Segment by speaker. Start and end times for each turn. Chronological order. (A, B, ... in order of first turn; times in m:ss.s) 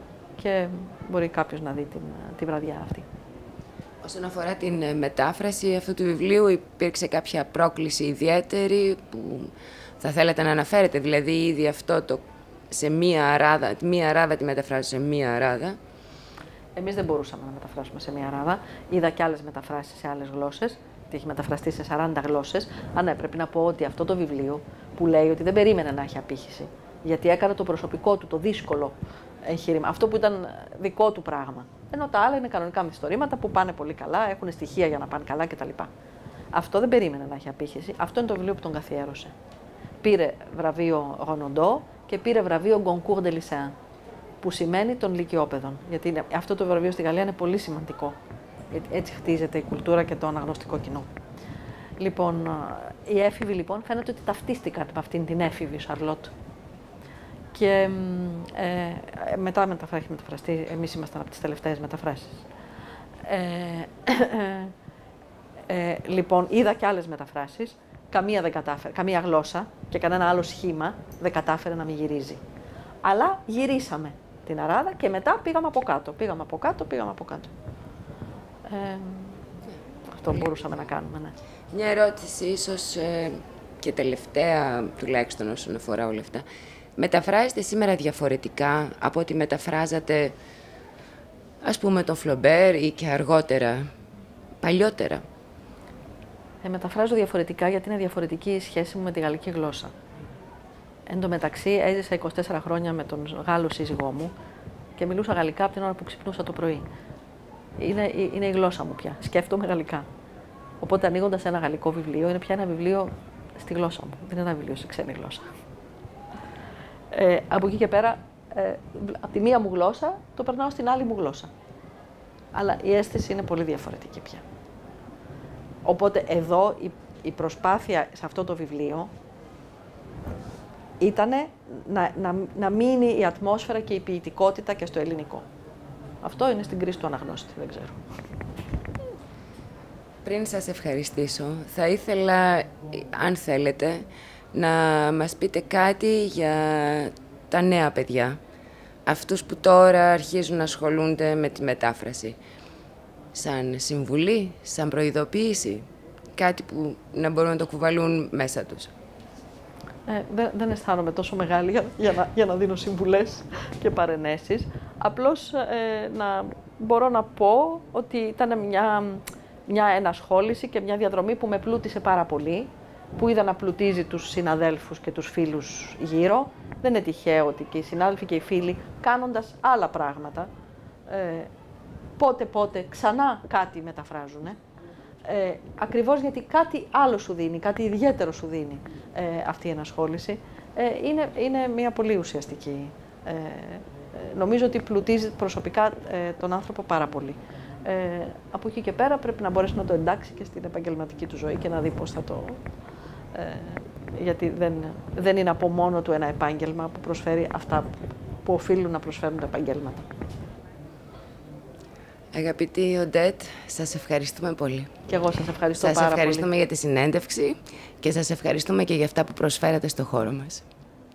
0:00.4-0:03.1 A
0:04.0-0:15.8 B
0:16.8-0:35.9 A
0:36.5-0:39.4 A
0:40.0-0:43.7 A
0:44.4-0:48.2 A
0:48.7-0:51.1 A
0:52.0-0:56.3 A
0:57.5-1:02.5 A
1:03.2-1:04.7 A
1:05.7-1:12.4 A
1:13.0-1:17.5 A
1:18.6-1:19.4 A
1:20.1-1:21.4 A
1:21.7-1:26.4 B
1:27.0-1:30.4 B
1:31.6-1:33.9 B
1:34.6-1:35.2 B
1:36.6-1:39.9 A
1:41.1-1:44.3 A
1:45.0-1:46.9 A
1:47.8-1:50.1 A
1:50.8-1:55.5 A
1:57.1-2:01.5 A
2:02.5-2:04.4 A
2:05.8-2:09.1 A
2:11.0-2:15.5 A
2:16.2-2:18.0 A
2:20.2-2:28.4 B
2:29.1-2:32.4 B
2:33.3-2:38.9 B
2:40.1-3:00.5 A
3:01.1-3:01.5 A
3:02.2-3:04.6 A
3:05.2-3:22.6 A
3:23.3-3:27.9 A
3:28.4-3:30.1 A
3:32.3-3:34.9 B
3:35.1-3:36.5 A
3:35.8-3:40.6 B